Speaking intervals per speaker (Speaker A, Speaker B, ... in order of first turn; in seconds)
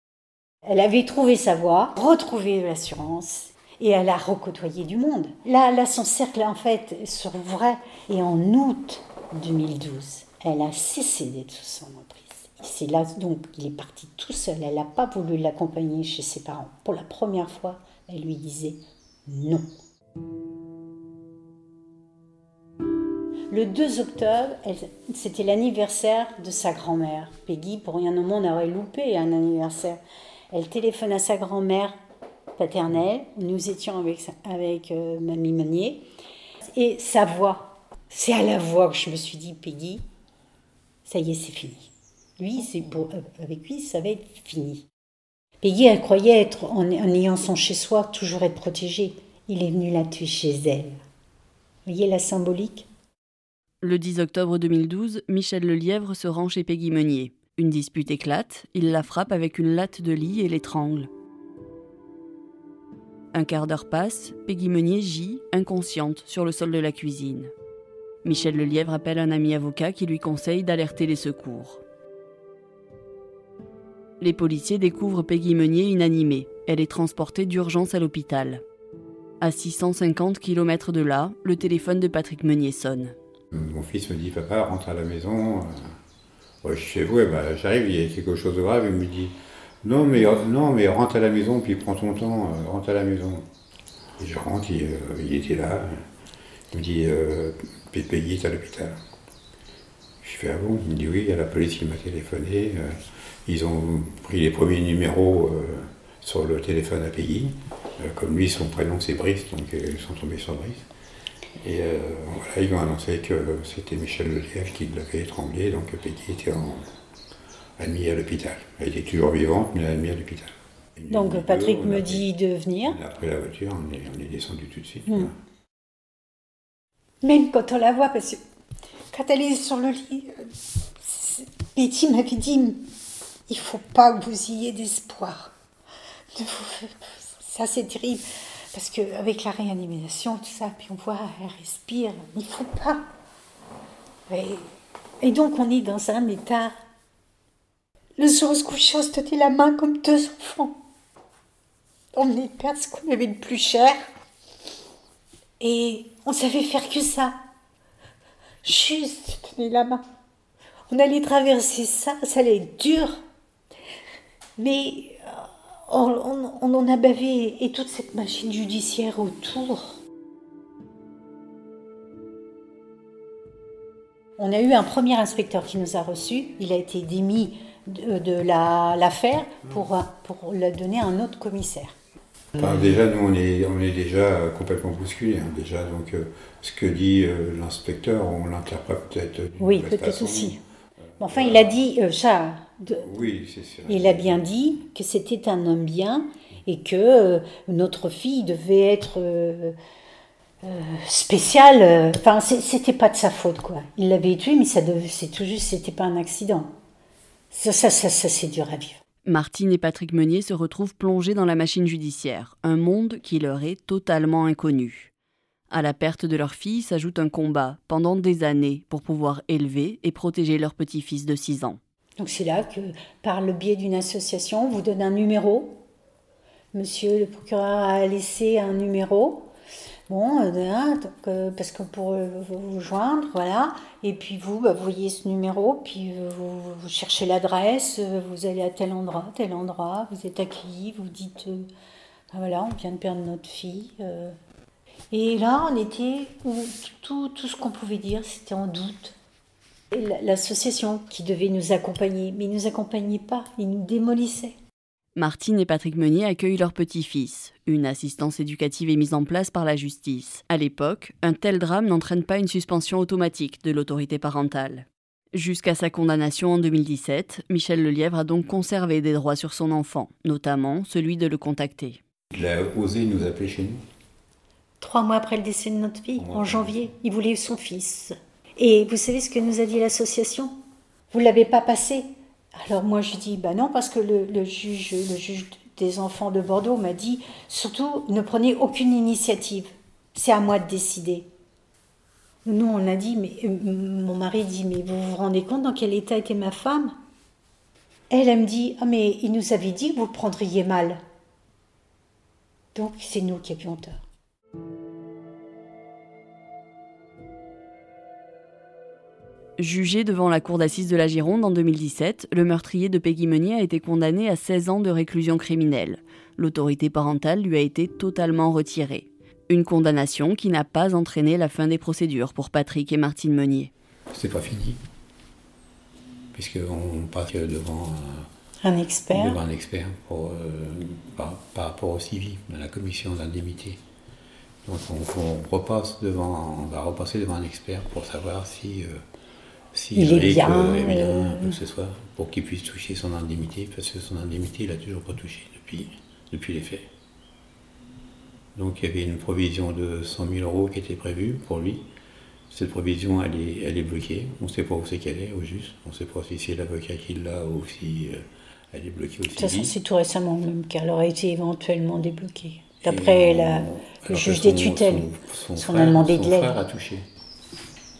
Speaker A: 0.7-19.7, 23.5-30.0, 30.5-32.0, 32.6-36.0, 36.6-40.0, 41.1-44.9, 45.6-51.0, 51.9-52.9, 121.1-123.0, 127.2-128.4, 129.1-130.5, 131.0-132.8, 133.5-135.5, 136.3-143.0, 144.3-144.7, 145.2-146.7, 148.2-150.8, 152.1-154.0, 155.6-157.4, 158.6-160.0, 160.9-163.2, 164.6-170.0, 174.4-181.9, 189.6-190.6, 191.2-193.1, 193.9-199.8, 200.6-206.7, 207.5-209.0, 222.2-225.8, 226.7-229.5, 230.1-241.7, 242.3-244.3, 245.1-249.2, 249.9-254.6, 274.8-280.5, 281.1-291.3, 292.4-296.9, 298.1-301.0, 302.8-304.0, 328.6-329.4, 339.9-341.6, 359.4-366.6
Speaker B: 53.8-61.1, 63.3-67.5, 68.2-71.8, 74.2-78.6, 79.4-83.2, 209.3-215.1, 215.7-221.8, 255.2-272.0, 309.6-323.7
Speaker C: 83.5-85.9, 86.6-93.5, 94.2-96.0, 96.7-99.0, 100.2-110.9, 111.6-116.9, 117.8-122.3, 122.8-125.3, 182.6-190.6, 191.2-191.8, 193.0-194.5, 272.3-273.8, 276.2-276.8, 324.1-324.8, 326.3-328.3, 329.1-333.8, 334.6-339.0, 339.7-346.9, 348.6-351.9, 352.5-359.7, 362.9-367.0